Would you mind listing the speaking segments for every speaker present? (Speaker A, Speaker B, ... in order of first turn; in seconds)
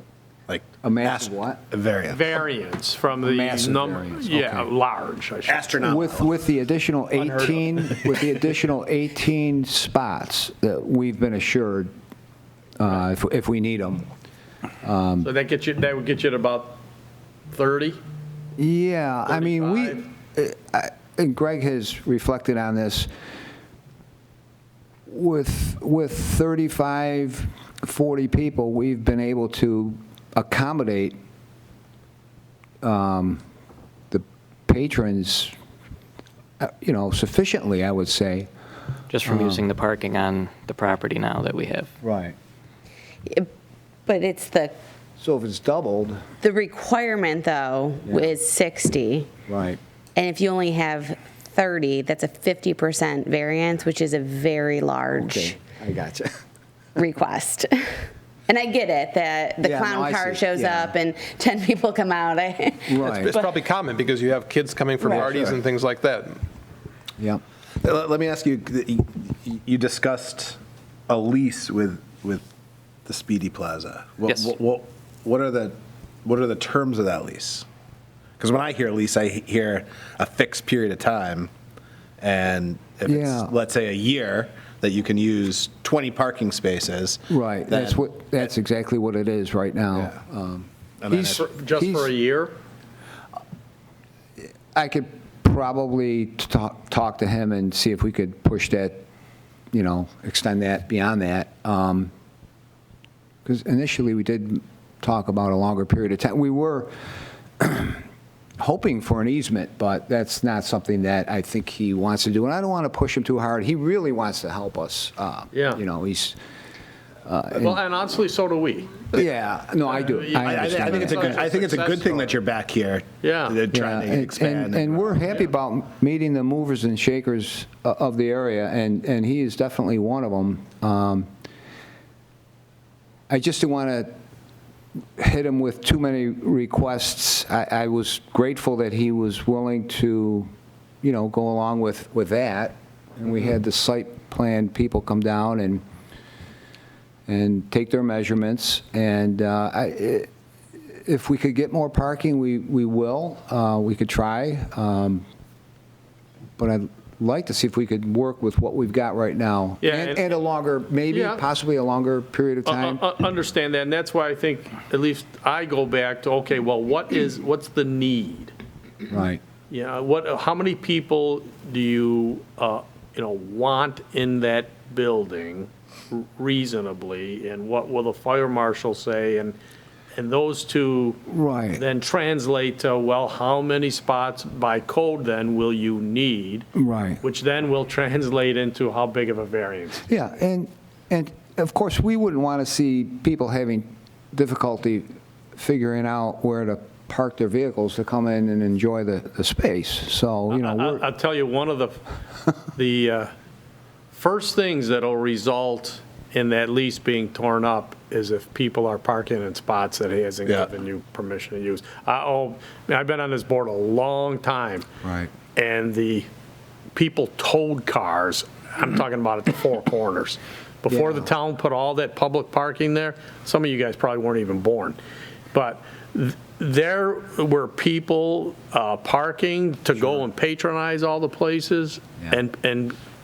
Speaker A: 0.5-2.4, 5.5-6.3, 65.3-65.5, 67.8-72.4, 73.0-77.7, 78.4-81.5, 82.2-88.0, 91.0-91.4, 120.3-125.3
Speaker B: 0.8-1.6, 3.2-4.7, 5.8-11.9, 12.8-14.1, 14.8-15.3, 18.6-23.1, 25.1-31.1, 32.8-33.4, 34.1-35.5, 36.6-38.5, 39.2-39.6, 42.0-42.3, 45.2-46.2, 48.0-48.3, 49.5-49.8, 55.1-56.4, 59.6-61.0, 62.9-63.4, 65.0-65.6, 83.0-83.5, 87.3-92.1, 94.7-99.0, 99.7-102.1, 103.4-106.9, 107.6-108.0, 108.6-116.3, 117.2-117.8, 119.1-121.4, 123.7-131.3, 133.3-134.1, 135.2-140.5, 141.0-145.8, 147.3-150.3, 150.9-155.2, 156.6-163.0, 169.1-169.4, 181.3-181.8, 186.8-187.2, 190.1-201.0, 215.0-215.3, 220.9-221.2
Speaker C: 2.1-5.8, 15.2-16.8, 17.5-18.0, 19.3-20.0, 91.3-92.5, 115.5-115.8, 117.5-119.1, 120.0-122.3, 123.2-123.6, 159.8-160.4, 161.1-161.4, 162.7-168.5, 169.7-179.5, 180.1-181.2, 181.7-186.7, 187.2-190.1, 200.5-202.0, 202.7-203.3, 204.1-214.8, 215.5-216.3, 216.9-225.0, 225.5-232.9
Speaker D: 39.1-41.9
Speaker E: 44.1-44.7, 46.4-49.3, 50.1-55.6, 57.0-63.4
Speaker F: 63.0-66.4